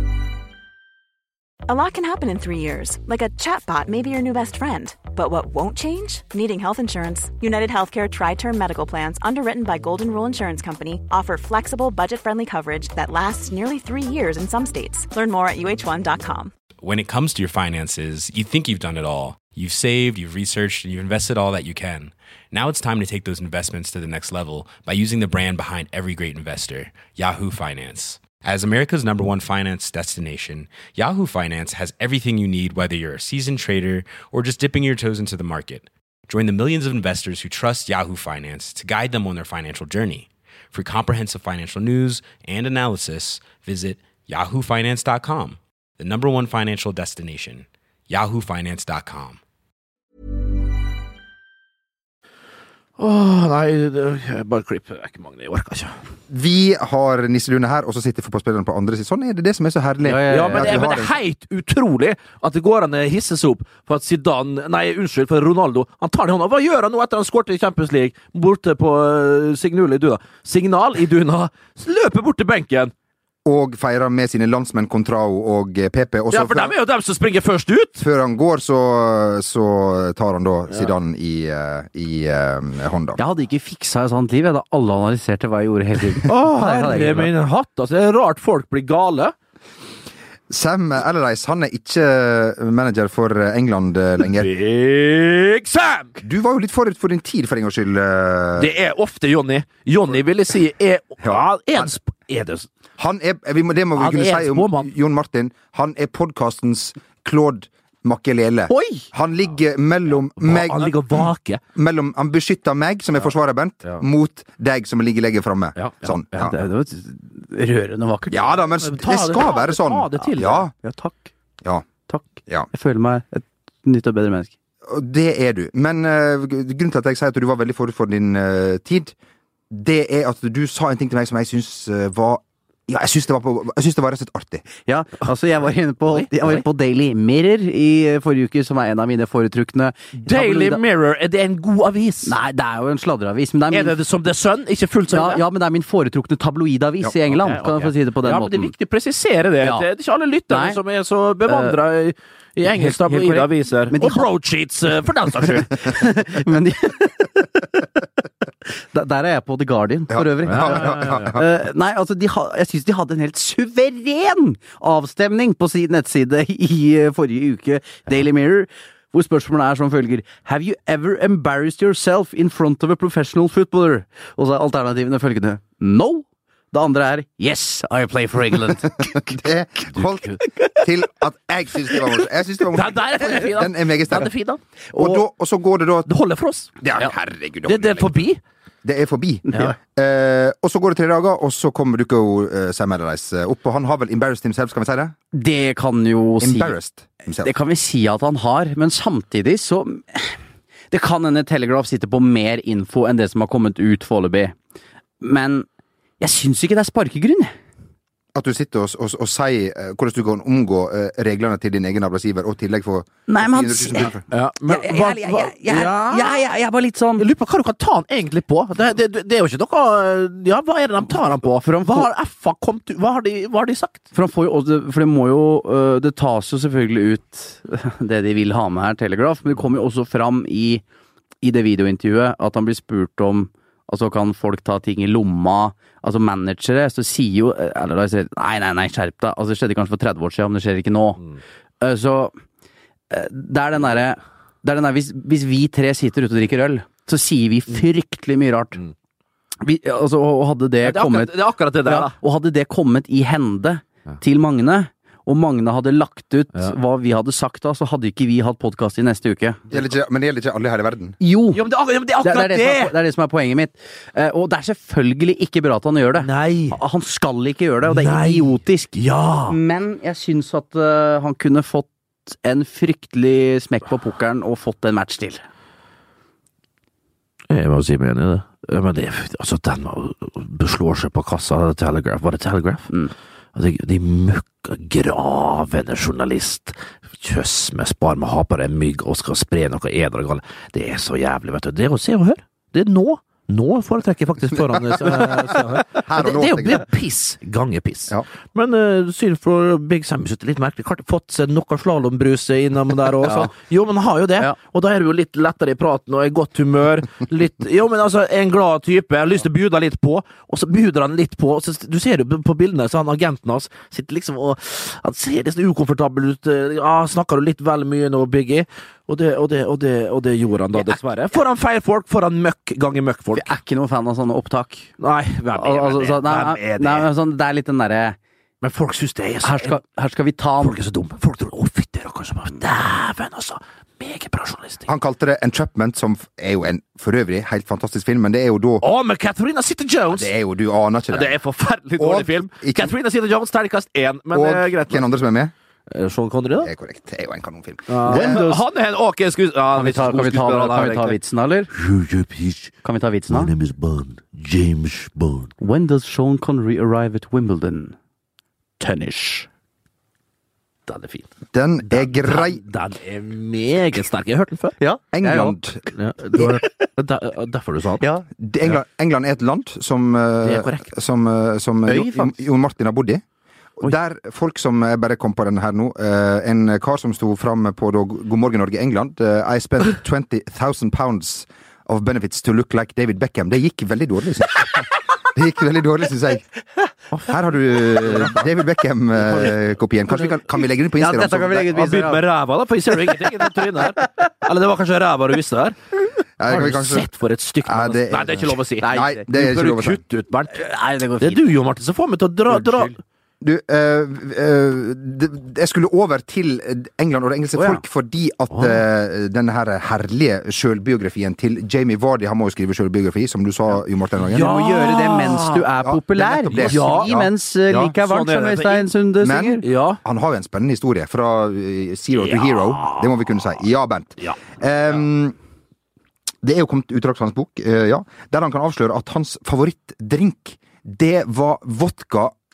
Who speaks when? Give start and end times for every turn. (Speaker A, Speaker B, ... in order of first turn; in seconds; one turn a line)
Speaker A: 1.7-16.5
Speaker B: 16.8-49.4
Speaker C: 53.0-56.0
Speaker D: 56.3-61.1
Speaker E: 60.0-60.7
Speaker C: 60.3-72.9
Speaker D: 73.4-76.7
Speaker C: 76.3-78.0
Speaker D: 78.0-83.2
Speaker E: 83.2-87.3
Speaker C: 86.2-89.3
Speaker D: 90.5-94.5
Speaker C: 94.2-96.2
Speaker D: 96.2-98.7
Speaker C: 98.6-102.7
Speaker D: 101.2-101.9
Speaker D: 103.0-116.5
Speaker C: 104.0-104.9
Speaker E: 108.7-109.0
Speaker C: 110.4-111.6
Speaker C: 115.8-116.5
Speaker E: 116.4-118.5
Speaker D: 118.3-120.7
Speaker C: 118.8-120.7
Speaker E: 120.8-121.3
Speaker E: 122.1-124.5
Speaker D: 124.8-129.1
Speaker D: 129.7-134.6
Speaker E: 134.8-140.8
Speaker C: 136.1-136.6
Speaker C: 140.2-142.3
Speaker E: 142.2-144.0
Speaker C: 143.7-145.4
Speaker E: 145.1-148.7
Speaker C: 147.3-156.1
Speaker E: 150.5-150.8
Speaker E: 151.5-151.7
Speaker E: 152.7-154.3
Speaker E: 155.5-157.9
Speaker E: 158.9-179.1
Speaker D: 160.1-161.4
Speaker C: 160.5-161.3
Speaker D: 179.0-184.3
Speaker E: 180.4-180.7
Speaker C: 182.7-184.6
Speaker E: 184.9-185.2
Speaker D: 184.9-186.1
Speaker C: 186.1-186.8
Speaker D: 186.8-188.3
Speaker C: 187.6-188.4
Speaker D: 188.8-195.1
Speaker E: 189.5-189.7
Speaker E: 195.3-196.8
Speaker D: 196.4-197.5
Speaker E: 197.4-200.4
Speaker E: 200.9-204.6
Speaker E: 205.2-205.7
Speaker E: 206.2-207.5
Speaker D: 208.3-214.2
Speaker E: 213.3-214.1
Speaker C: 214.3-216.4
Speaker E: 214.7-217.2
Speaker C: 217.2-224.0
Speaker E: 221.6-222.1
Speaker E: 224.1-230.8
Speaker E: 231.4-241.2
Speaker E: 241.8-242.3
Speaker E: 243.1-248.8
Speaker E: 249.6-251.3
Speaker C: 250.8-252.2
Speaker E: 251.8-259.6
Speaker D: 259.7-261.2
Speaker E: 261.2-261.6
Speaker C: 261.5-262.9
Speaker E: 262.2-268.9
Speaker C: 266.2-266.8
Speaker C: 267.9-269.6
Speaker E: 269.5-275.4
Speaker C: 277.5-282.9
Speaker C: 283.5-323.6
Speaker D: 294.6-296.9
Speaker E: 303.2-303.5
Speaker E: 323.3-324.9
Speaker C: 325.0-327.1
Speaker E: 325.5-328.2
Speaker C: 328.6-329.8
Speaker E: 329.4-330.8
Speaker C: 330.6-334.9
Speaker D: 334.9-338.8
Speaker C: 338.8-340.3
Speaker D: 340.1-341.4
Speaker C: 341.1-345.1
Speaker D: 342.0-342.9
Speaker D: 344.3-345.5
Speaker C: 345.9-346.7
Speaker D: 346.6-348.4
Speaker C: 347.9-351.2
Speaker E: 348.1-348.6
Speaker E: 349.7-351.7
Speaker C: 351.7-352.7
Speaker E: 352.8-353.5
Speaker C: 353.3-355.5
Speaker E: 355.6-357.9
Speaker E: 358.8-359.5
Speaker C: 360.9-361.3
Speaker D: 361.5-362.6
Speaker C: 361.9-364.8
Speaker E: 364.8-366.8
Speaker D: 365.1-365.8
Speaker C: 365.9-368.0
Speaker E: 368.0-368.2
Speaker D: 368.4-373.2
Speaker C: 370.4-370.9
Speaker E: 371.9-372.3
Speaker D: 373.8-386.4
Speaker C: 387.1-387.4
Speaker D: 387.3-391.7
Speaker C: 388.0-388.4
Speaker C: 389.2-389.6
Speaker E: 391.0-392.2
Speaker C: 391.7-395.7
Speaker D: 396.4-397.1
Speaker C: 396.5-400.6
Speaker D: 397.6-400.0
Speaker E: 398.8-399.3
Speaker E: 400.5-401.4
Speaker C: 401.2-402.9
Speaker E: 402.5-402.9
Speaker D: 403.4-414.5
Speaker E: 407.6-407.8
Speaker C: 408.5-408.8
Speaker C: 414.2-415.6
Speaker E: 414.3-419.6
Speaker D: 415.8-417.9
Speaker C: 416.5-417.1
Speaker C: 418.0-418.9
Speaker D: 419.2-425.4
Speaker C: 419.6-420.0
Speaker C: 422.2-423.2
Speaker C: 424.2-425.0
Speaker D: 426.4-432.3